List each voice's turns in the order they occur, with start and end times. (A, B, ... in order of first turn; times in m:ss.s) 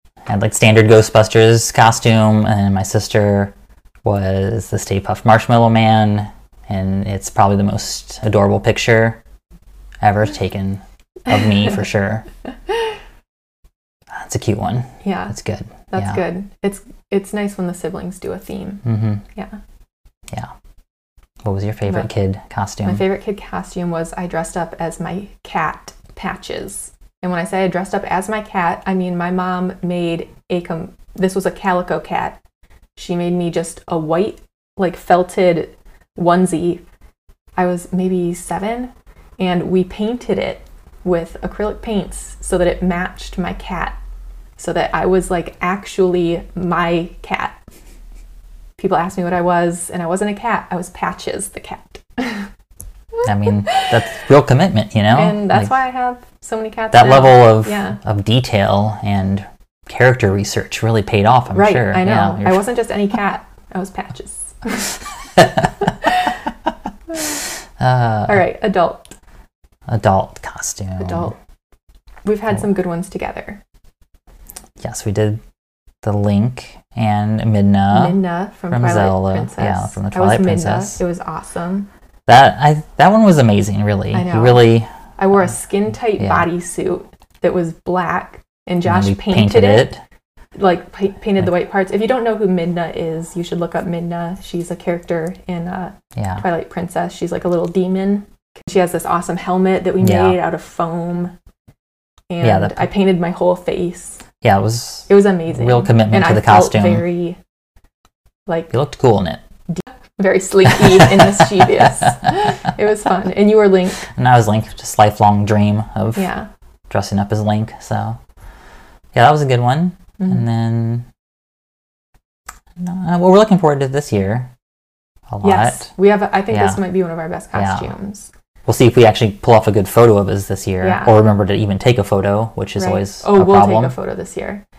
0:00.3-0:03.5 A
0:04.0-0:09.2 A
0:10.0-0:12.3 A
0:14.1-0:16.2 A
0:15.0-0:15.3 B
0:15.9-0:19.6 B
0:18.8-0:19.2 A
0:21.4-0:23.0 A
0:22.8-0:32.4 B
0:33.0-0:36.8 B
0:37.6-0:44.0 B
0:44.6-0:47.6 B
0:48.8-0:52.5 B
0:53.2-0:55.7 A
0:55.1-0:58.0 B
0:56.9-1:02.7 A
1:01.5-1:05.0 B
1:05.4-1:05.7 A
1:05.8-1:06.3 B
1:07.8-1:08.4 A
1:08.3-1:09.1 B
1:09.9-1:11.3 A
1:11.0-1:11.4 B
1:12.2-1:13.6 B
1:14.8-1:15.4 A
1:16.0-1:21.0 A
1:17.9-1:21.9 B
1:22.3-1:24.9 A
1:24.1-1:29.9 B
1:26.2-1:26.5 A
1:28.8-1:30.0 A
1:30.6-1:41.3 B
1:36.2-1:36.4 A
1:40.0-1:40.4 A
1:42.3-1:44.2 B
1:42.4-1:42.9 A
1:44.4-1:47.1 A
1:45.1-1:47.4 B
1:48.7-1:49.4 A
1:49.7-1:54.0 B
1:51.0-1:51.6 A
1:54.1-1:56.3 A
1:56.2-1:56.5 B
1:56.9-1:58.2 A
1:59.1-2:01.1 A
2:02.8-2:04.5 A
2:05.3-2:05.9 A
2:05.4-2:08.3 B
2:06.5-2:06.8 A
2:07.5-2:07.9 A
2:08.7-2:13.9 A
2:10.8-2:11.2 B
2:12.8-2:14.6 B